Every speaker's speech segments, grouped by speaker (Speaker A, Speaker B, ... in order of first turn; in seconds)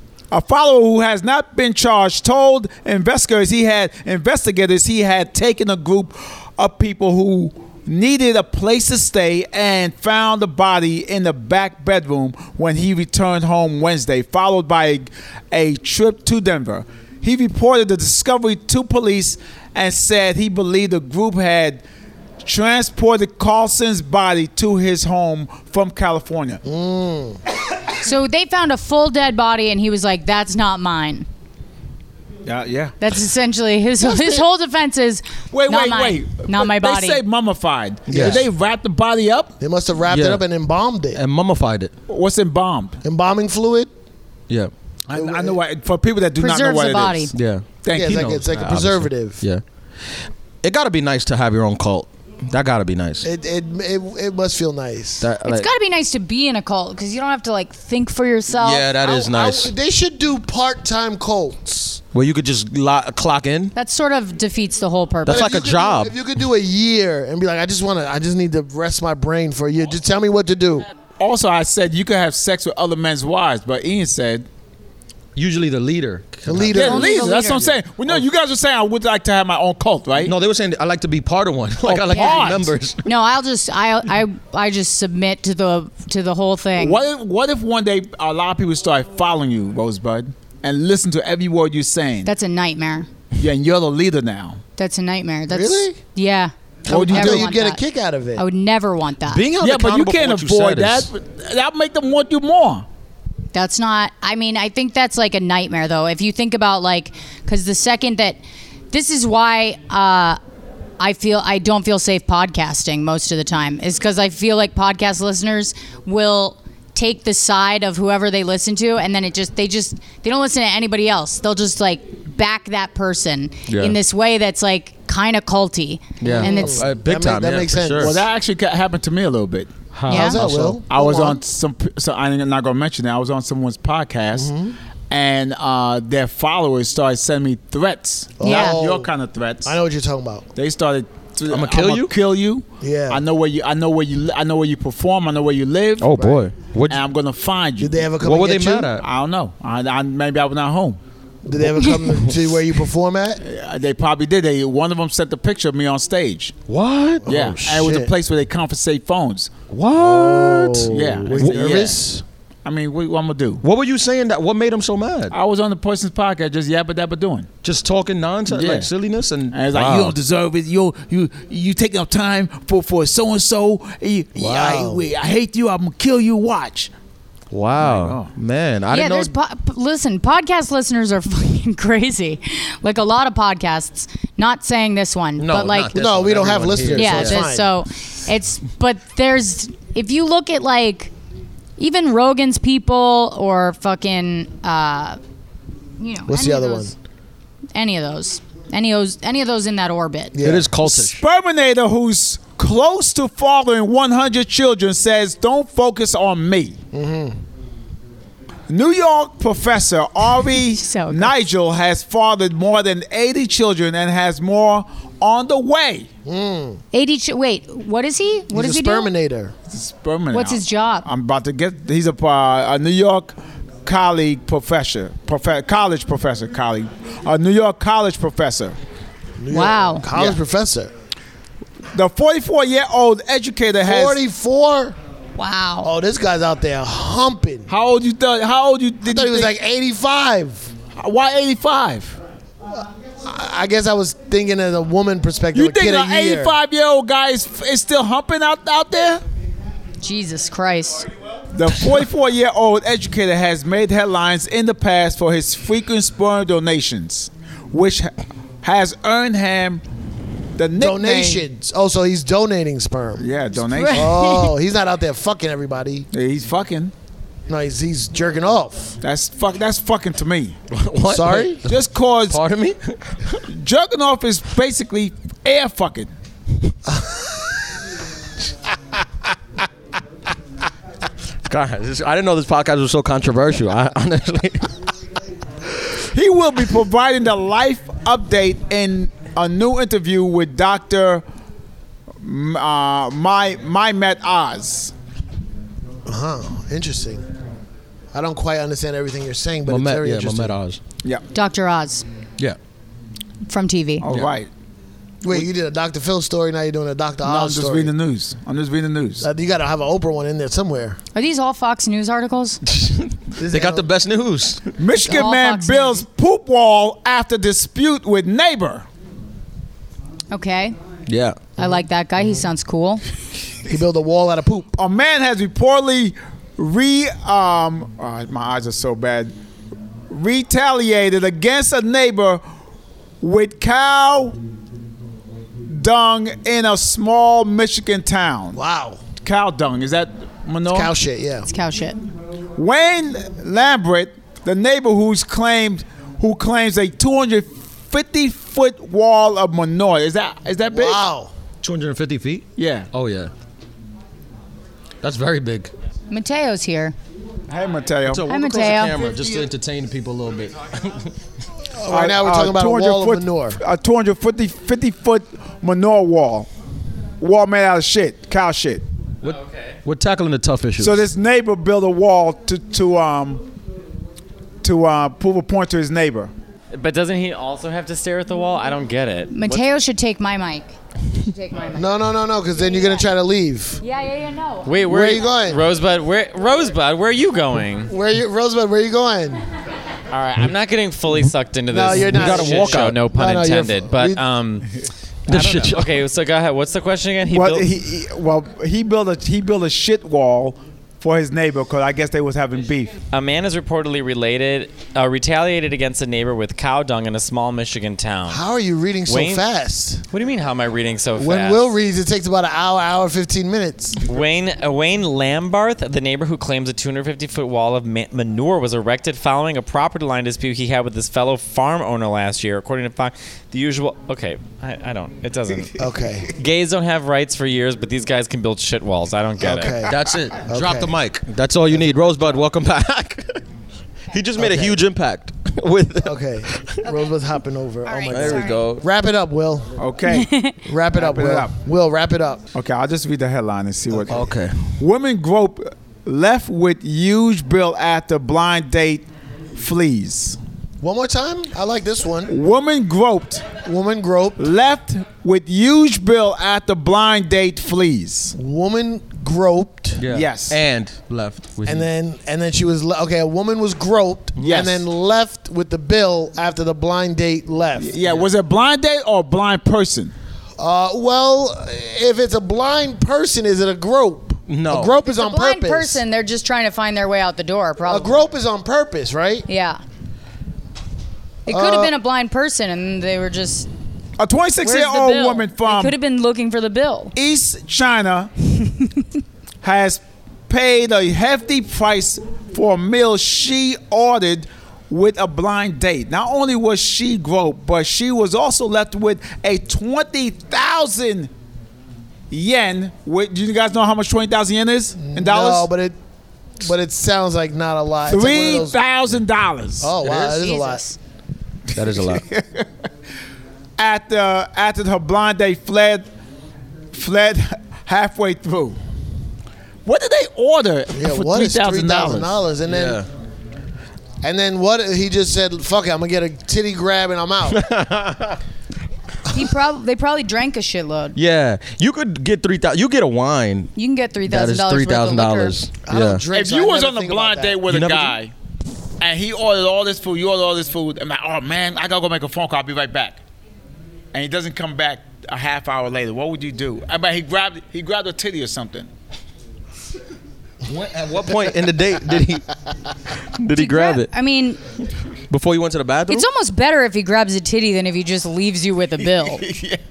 Speaker A: 0.3-21.8, 22.4-26.6, 32.5-33.0, 35.5-39.5, 42.1-43.0, 45.1-48.4, 71.2-74.5, 76.7-80.3, 81.8-82.7, 86.8-92.3, 93.4-94.6, 96.9-97.5, 99.6-102.8, 128.0-129.7, 130.9-134.5, 135.1-139.8, 140.6-146.2, 146.9-148.0, 149.0-151.0, 153.4-156.6, 157.3-159.5, 160.9-162.0, 162.7-163.6, 165.3-167.5, 168.5-168.9, 169.5-176.9, 177.8-178.3, 200.8-206.8, 208.7-216.1, 219.7-228.8, 231.9-234.2, 237.7-239.5, 241.0-242.2, 245.5-249.2, 251.5-259.8, 260.6-261.4, 263.2-264.1, 266.1-266.9, 269.0-270.6, 271.6-272.4, 273.5-276.1, 286.1-291.2, 292.2-294.9, 304.0-304.5, 307.2-309.3, 314.8-318.9, 324.8-329.3, 330.1-332.4, 333.2-334.4, 335.7-338.6, 339.2-340.9, 342.6-351.0, 352.6-352.9, 357.5-358.2, 361.9-366.5, 367.2-368.8, 370.8-373.5, 374.6-376.3, 397.3-402.9, 439.8-440.3, 440.9-441.5, 442.6-444.2, 444.8-450.4, 452.3-453.5, 454.4-458.3, 460.1-460.6, 464.4-464.8, 467.8-470.1, 484.2-485.9, 487.2-488.3, 489.6-501.3, 502.3-505.7, 508.1-510.0, 512.0-512.7, 513.8-516.1, 516.9-518.8, 519.9-522.4, 536.3-538.3, 539.0-543.2, 544.1-548.9, 559.4-559.8
Speaker B: 26.6-27.4, 34.0-34.5, 38.1-38.4, 39.6-41.2, 43.0-43.9, 45.1-45.6, 47.9-49.4, 53.2-55.3, 59.0-62.0, 65.3-70.9, 76.5-77.3, 95.5-96.0, 96.8-98.5, 126.2-128.3, 130.1-131.4, 134.3-134.8, 138.4-139.1, 139.6-140.5, 142.8-143.2, 147.8-148.9, 151.4-153.4, 157.2-158.1, 160.0-162.2, 174.4-175.1, 185.9-187.7, 196.3-196.9, 200.3-200.8, 206.9-207.4, 216.2-216.8, 218.5-219.5, 229.4-230.9, 233.8-235.0, 235.8-237.7, 239.0-240.7, 242.8-246.6, 260.8-263.3, 263.9-266.1, 267.5-269.0, 271.1-271.6, 276.9-277.6, 296.1-297.3, 298.1-300.6, 305.2-307.9, 309.2-311.0, 313.4-313.9, 321.6-322.5, 323.7-324.8, 338.5-339.0, 340.7-341.5, 350.7-351.3, 361.7-363.6, 381.7-383.8, 384.9-385.7, 387.9-389.4, 391.7-394.2, 408.3-410.1, 411.1-414.0, 425.8-426.3, 429.4-430.9, 434.4-434.8, 436.0-439.8, 440.6-442.4, 443.9-444.3, 450.8-452.4, 453.6-454.4, 458.3-460.0, 461.7-468.0, 470.6-476.0, 477.8-479.5, 481.5-481.9, 505.0-506.0, 506.6-508.8, 509.8-510.8, 520.9-523.0, 524.2-527.7, 535.9-537.6
Speaker C: 28.0-31.3, 33.0-37.2, 46.4-47.3, 55.5-58.9, 63.8-65.5, 76.8-77.7, 82.1-82.5, 83.0-87.0, 92.2-93.1, 94.8-97.8, 98.4-99.5, 103.5-108.4, 108.9-110.4, 111.0-126.8, 130.1-130.4, 138.4-138.8, 178.9-185.9, 186.9-191.1, 191.8-195.2, 196.0-196.9, 197.7-200.3, 210.7-211.3, 216.9-219.1, 220.3-221.1, 229.5-230.1, 235.4-235.9, 250.0-251.1, 263.6-264.5, 301.3-302.1, 303.5-304.0, 311.1-312.6, 314.9-316.1, 320.3-320.8, 321.6-323.0, 341.5-342.0, 356.1-356.9, 358.3-359.0, 379.3-381.9, 382.5-383.1, 383.8-385.3, 437.9-438.6, 440.1-440.6, 475.0-478.2, 479.5-479.8, 481.5-483.7, 484.6-487.1, 510.1-511.0, 529.3-531.2, 533.8-535.6, 553.5-554.6, 556.1-559.4
Speaker D: 38.1-38.4, 40.1-40.4, 41.1-41.9, 47.3-49.6, 50.6-53.3, 55.2-55.7, 58.5-59.7, 62.1-63.7, 65.3-66.1, 75.3-76.9, 80.2-83.1, 99.3-101.1, 123.7-124.0, 126.2-128.2, 129.9-130.8, 141.5-142.1, 146.0-147.0, 148.2-149.0, 156.7-157.4, 159.7-161.8, 163.6-165.3, 167.6-170.2, 177.5-179.3, 185.4-187.5, 200.4-201.2, 270.7-273.4, 281.4-284.7, 299.7-300.8, 312.7-314.7, 321.1-321.4, 351.6-353.3, 355.0-355.7, 358.1-361.1, 369.2-371.0, 391.9-393.0, 395.3-396.0, 429.8-433.4, 434.1-436.8, 438.1-438.9, 444.1-444.8, 460.0-461.9, 468.0-468.3, 474.5-474.9, 511.7-512.2, 522.7-523.1, 527.5-528.4, 531.1-533.7, 534.3-536.2, 537.7-538.1, 550.6-552.5, 553.2-554.1, 555.3-556.3
Speaker E: 369.2-369.8, 376.7-379.7, 384.6-387.9, 390.1-394.7, 395.3-397.7, 403.1-408.4, 409.1-409.5, 410.1-411.7, 414.1-425.8, 426.4-429.8